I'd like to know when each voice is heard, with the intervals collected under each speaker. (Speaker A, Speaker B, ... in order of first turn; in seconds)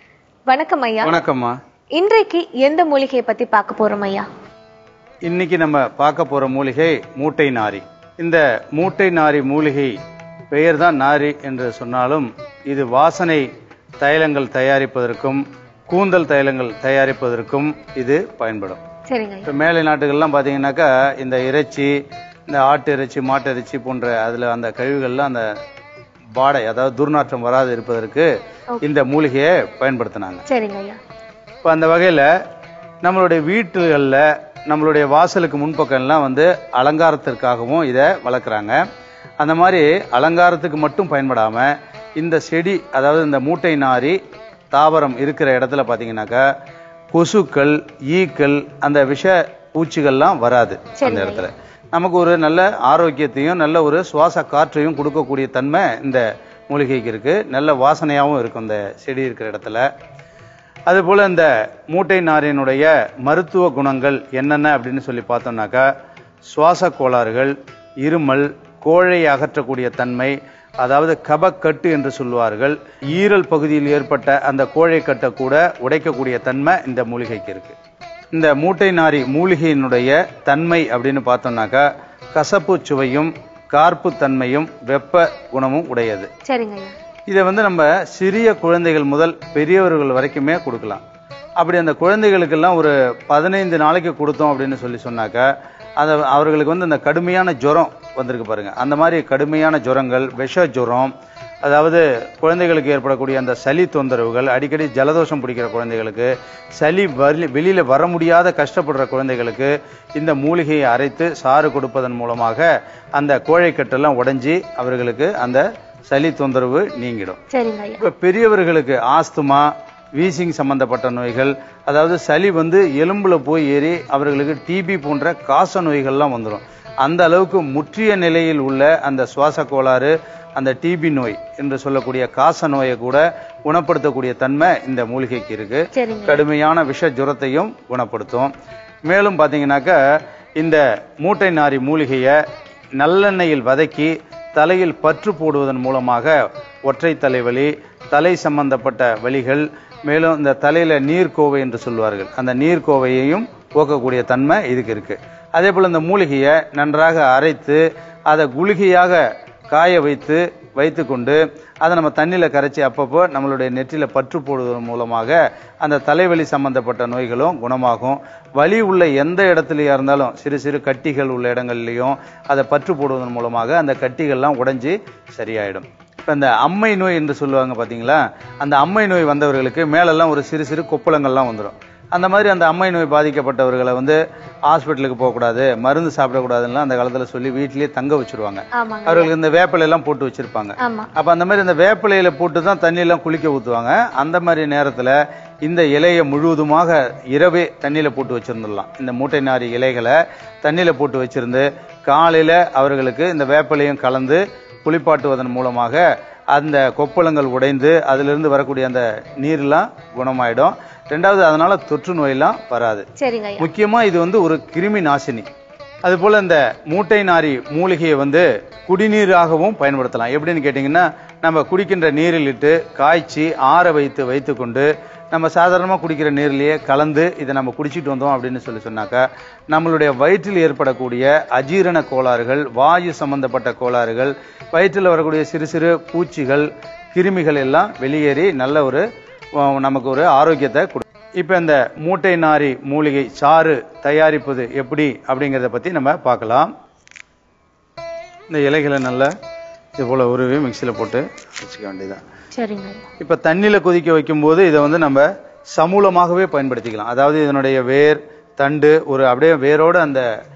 Speaker A: 0.5-1.1, 2.0-4.3, 19.1-19.5, 30.5-31.0, 51.0-51.5, 86.5-87.0, 117.5-118.0, 135.9-136.4, 188.8-189.3, 190.8-191.1, 213.2-213.7, 252.6-253.1
Speaker B: 1.0-1.6, 5.3-9.9, 10.5-13.5, 14.0-18.8, 19.5-21.9, 22.5-25.5, 26.4-28.3, 28.8-30.4, 31.6-32.3, 33.0-38.8, 39.4-44.2, 44.7-46.5, 47.1-59.9, 60.9-65.9, 66.5-77.8, 78.3-86.3, 87.3-91.0, 91.6-101.1, 101.6-112.7, 113.2-117.4, 118.0-138.5, 139.1-140.0, 140.6-142.3, 143.0-146.3, 146.9-213.1, 213.6-215.5, 216.0-239.0, 239.6-246.7, 248.5-249.3, 250.0-252.2, 253.2-260.2